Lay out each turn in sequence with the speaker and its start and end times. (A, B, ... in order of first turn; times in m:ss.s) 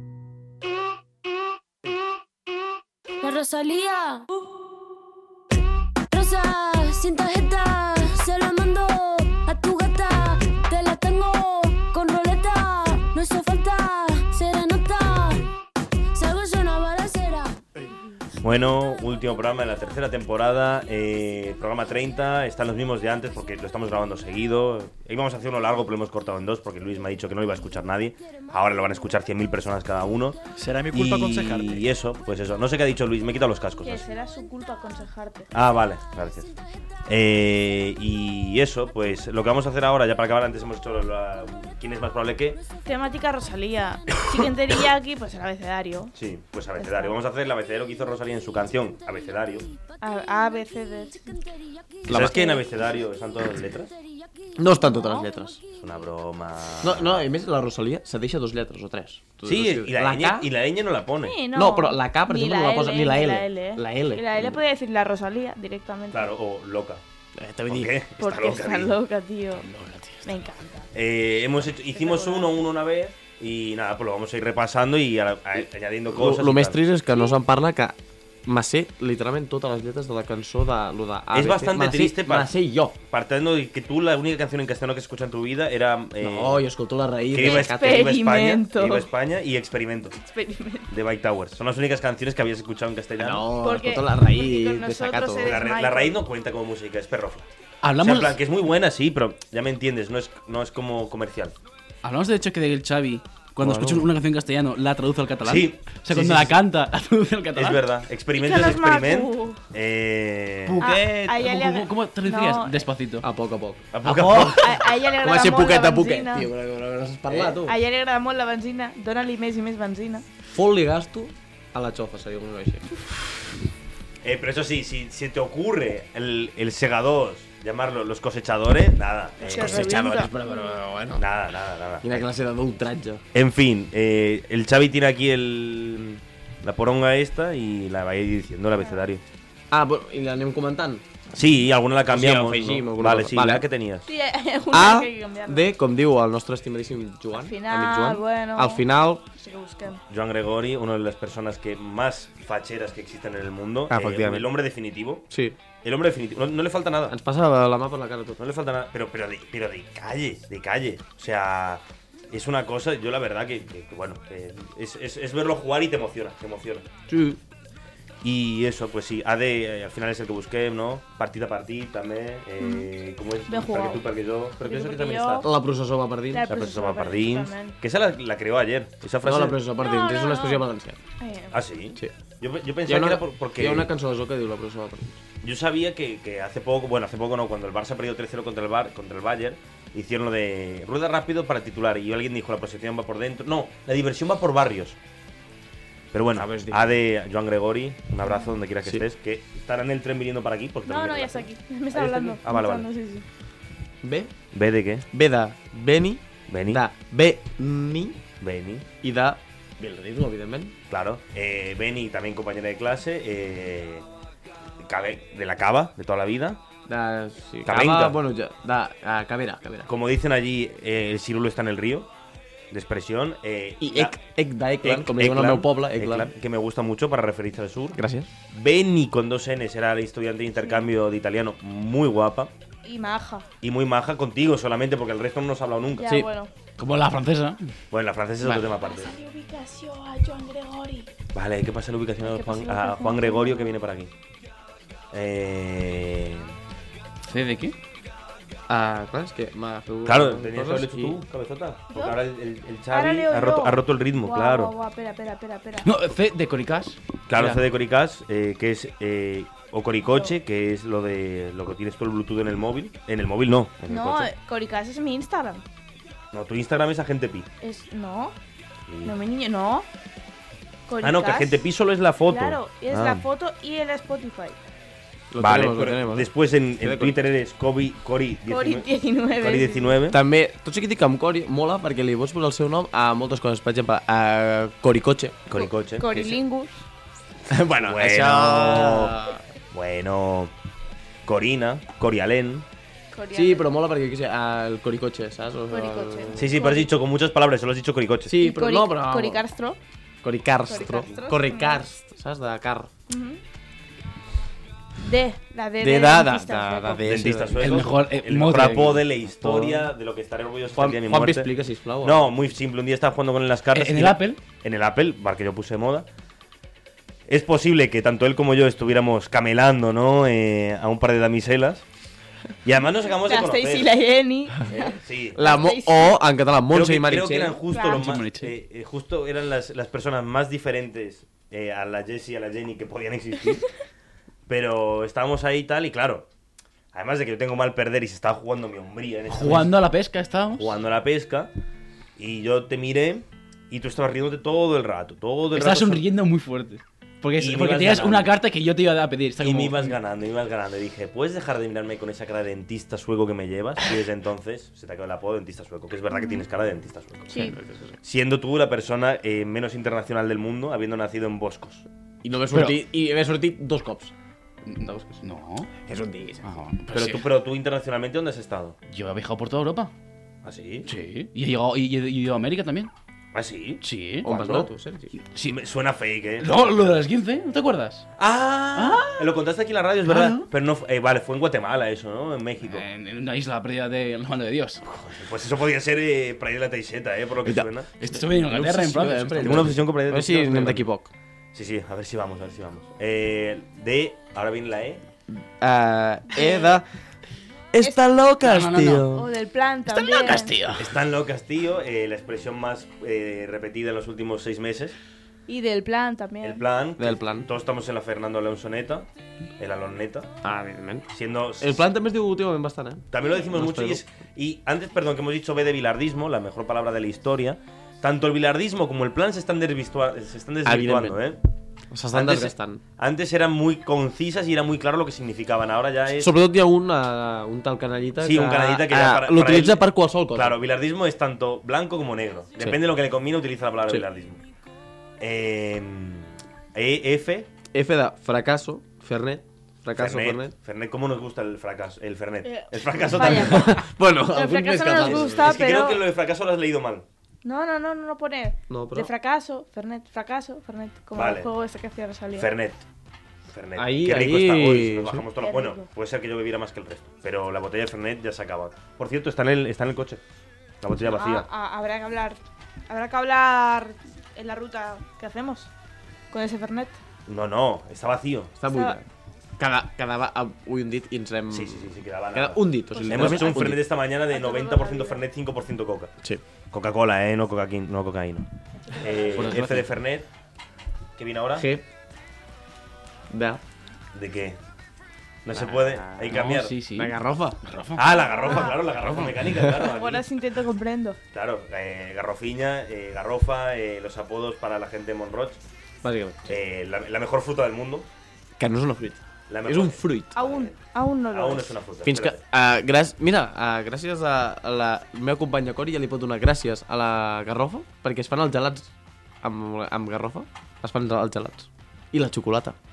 0:03.2-0:04.3 A
0:06.1-0:15.5 A
0:16.1-0:17.6 A
0:18.4-0:34.1 B
0:33.8-0:35.5 C
0:35.5-0:36.5 B
0:37.1-0:42.6 B
0:42.8-0:46.1 C
0:46.1-0:49.7 B
0:46.8-0:47.2 C
0:50.0-0:51.4 C
0:52.0-0:52.4 D
0:52.1-0:53.9 B
0:52.1-0:52.6 C
0:54.6-0:55.6 D
0:54.8-0:55.3 C
0:55.8-0:57.3 B
0:56.8-1:00.5 D
0:59.4-1:01.4 B
1:01.2-1:06.3 C
1:01.5-1:04.6 D
1:06.1-1:07.0 B
1:07.4-1:07.9 D
1:07.7-1:09.0 B
1:08.2-1:09.7 C
1:09.6-1:10.3 D
1:10.2-1:10.9 C
1:10.9-1:16.8 B
1:11.9-1:12.5 C
1:16.1-1:23.0 D
1:21.3-1:22.5 B
1:23.0-1:26.7 B
1:26.2-1:28.0 D
1:27.3-1:30.2 B
1:27.4-1:29.1 C
1:30.2-1:30.9 C
1:30.9-1:33.5 B
1:33.2-1:35.6 D
1:33.6-1:36.3 C
1:35.4-1:41.6 B
1:37.8-1:38.4 E
1:42.0-1:47.8 E
1:43.6-1:44.1 D
1:45.4-1:46.6 B
1:46.2-1:46.5 D
1:47.5-1:50.8 B
1:48.4-1:49.6 C
1:50.7-1:53.3 E
1:50.8-1:52.9 C
1:53.2-1:57.8 D
1:53.9-1:54.9 B
1:54.0-1:54.6 E
1:54.5-1:56.5 C
1:57.3-1:57.6 B
1:57.6-2:00.2 C
2:00.5-2:03.4 D
2:04.2-2:09.9 B
2:09.4-2:10.8 C
2:09.5-2:11.2 D
2:11.2-2:12.3 B
2:12.0-2:13.2 D
2:13.3-2:19.2 B
2:19.7-2:21.0 D
2:21.3-2:24.1 B
2:22.1-2:23.7 D
2:24.1-2:25.7 C
2:24.7-2:29.2 D
2:27.3-2:30.0 C
2:30.1-2:35.3 B
2:33.9-2:34.5 D
2:35.3-2:35.6 D
2:35.8-2:37.2 B
2:37.1-2:38.4 D
2:38.4-2:46.9 B
2:47.1-2:47.4 D
2:48.2-2:55.5 B
2:52.6-2:52.9 C
2:53.5-2:54.0 C
2:54.6-2:55.5 C
2:55.4-2:56.5 D
2:56.3-2:57.8 C
2:56.5-2:59.6 B
2:59.2-3:01.0 D
2:59.8-3:00.7 C
3:01.2-3:01.6 C
3:01.5-3:03.9 B
3:02.9-3:05.2 D
3:05.4-3:15.0 B
3:16.1-3:22.9 B
3:16.4-3:16.9 D
3:20.9-3:23.2 C
3:24.0-3:24.3 D
3:24.5-3:25.1 B
3:25.1-3:28.2 D
3:26.5-3:26.8 B
3:28.4-3:28.9 B
3:29.0-3:30.8 D
3:30.9-3:34.1 B
3:34.8-3:36.6 B
3:36.9-3:39.9 D
3:37.6-3:38.2 B
3:39.9-3:42.1 B
3:42.7-3:44.2 B
3:43.8-3:46.3 D
3:44.8-3:48.0 B
3:48.0-3:48.3 D
3:48.5-3:52.5 B
3:50.6-3:50.9 C
3:52.8-3:53.5 C
3:53.6-3:56.1 B
3:56.0-3:56.5 C
3:56.8-3:57.7 E
3:57.9-3:59.2 B
3:58.7-4:01.1 C
4:01.3-4:04.1 B
4:02.2-4:03.8 C
4:05.1-4:06.5 B
4:07.2-4:07.8 E
4:08.7-4:11.2 D
4:10.0-4:14.7 B
4:11.9-4:12.2 C
4:12.9-4:16.0 C
4:15.8-4:17.6 E
4:17.3-4:24.3 B
4:23.9-4:25.6 C
4:26.3-4:27.5 B
4:27.6-4:28.4 C
4:28.9-4:29.2 B
4:29.0-4:29.9 C
4:30.9-4:31.6 C
4:31.0-4:33.2 B
4:32.3-4:34.6 C
4:35.3-4:37.2 D
4:35.4-4:40.2 B
4:38.5-4:40.0 C
4:40.1-4:45.4 D
4:45.5-4:46.4 B
4:45.5-4:46.8 C
4:47.5-4:49.4 D
4:47.8-4:50.5 B
4:51.2-4:52.7 B
4:53.1-4:53.7 C
4:53.3-4:56.6 D
4:55.7-4:56.9 C
4:56.4-4:58.3 B
4:58.3-4:59.4 D
4:58.4-4:59.8 C
5:00.2-5:02.9 D
5:00.7-5:01.8 C
5:03.1-5:03.4 C
5:05.0-5:07.1 C
5:05.8-5:07.9 D
5:07.0-5:11.5 B
5:07.6-5:09.0 E
5:09.4-5:09.9 D
5:10.8-5:12.3 D
5:12.0-5:16.1 B
5:13.7-5:14.4 E
5:17.3-5:21.8 B
5:22.6-5:24.0 B
5:23.1-5:26.2 C
5:24.7-5:25.4 B
5:25.4-5:27.6 D
5:26.7-5:33.6 B
5:27.7-5:28.1 C
5:27.8-5:28.5 E
5:34.5-5:36.3 B
5:36.9-5:39.8 B
5:39.3-5:40.7 E
5:40.6-5:41.5 B
5:42.2-5:46.0 B
5:45.5-5:50.0 E
5:47.4-5:48.3 B
5:49.4-6:01.9 B
5:56.1-5:56.4 C
5:57.3-5:58.0 D
6:02.2-6:04.1 D
6:02.5-6:02.8 E
6:04.7-6:05.7 E
6:05.8-6:06.6 D
6:06.4-6:07.2 E
6:06.9-6:08.8 B
6:08.9-6:09.9 E
6:10.4-6:10.9 B
6:10.9-6:12.9 E
6:13.3-6:14.7 B
6:13.8-6:14.3 E
6:14.2-6:15.2 D
6:15.2-6:15.6 E
6:15.4-6:17.0 B
6:16.4-6:18.1 E
6:18.2-6:22.9 B
6:18.8-6:19.2 E
6:20.1-6:20.5 E
6:22.7-6:24.8 E
6:24.8-6:27.9 B
6:27.4-6:31.1 D
6:28.0-6:29.7 E
6:29.4-6:30.9 B
6:31.5-6:35.0 B
6:35.3-6:36.9 D
6:36.3-6:36.8 C
6:37.7-6:39.2 D
6:37.8-6:38.1 C
6:38.4-6:39.2 E
6:39.1-6:40.6 C
6:39.9-6:40.9 E
6:40.7-6:45.0 B
6:45.5-6:46.6 C
6:46.4-6:49.1 B
6:47.0-6:47.5 D
6:49.6-6:50.4 B
6:50.4-6:54.0 D
6:51.1-6:51.8 B
6:53.1-7:01.4 B
7:00.6-7:01.2 D
7:01.9-7:02.8 D
7:02.1-7:06.4 B
7:06.2-7:10.6 D
7:08.2-7:14.4 B
7:15.2-7:17.5 B
7:17.7-7:20.5 D
7:20.0-7:23.8 B
7:22.4-7:26.0 C
7:23.1-7:25.6 D
7:25.0-7:27.1 B
7:27.4-7:32.5 C
7:28.7-7:29.1 D
7:31.2-7:31.5 B
7:32.4-7:32.8 B
7:33.5-7:40.2 B
7:33.8-7:35.2 D
7:35.4-7:35.9 C
7:40.8-7:41.5 B
7:41.0-7:42.4 C
7:42.9-7:45.7 C
7:46.3-7:47.0 C
7:47.3-7:48.5 B
7:48.6-7:49.1 D
7:48.7-7:49.0 C
7:49.6-7:53.8 D
7:51.5-7:56.1 B
7:52.9-7:55.2 C
7:56.7-8:00.3 B
7:58.8-7:59.6 C
7:59.4-7:59.8 D
7:59.4-7:59.9 E
8:01.2-8:01.7 B
8:01.6-8:01.9 D
8:03.3-8:03.6 D
8:04.1-8:04.6 B
8:05.4-8:06.8 B
8:05.5-8:07.6 D
8:06.3-8:08.1 E
8:08.0-8:10.3 B
8:08.0-8:08.9 C
8:09.4-8:09.7 D
8:09.7-8:11.2 C
8:11.3-8:15.6 B
8:16.0-8:16.6 D
8:16.5-8:18.1 B
8:18.6-8:20.4 D
8:19.5-8:20.8 B
8:20.4-8:21.8 C
8:21.3-8:22.4 B
8:22.0-8:32.8 D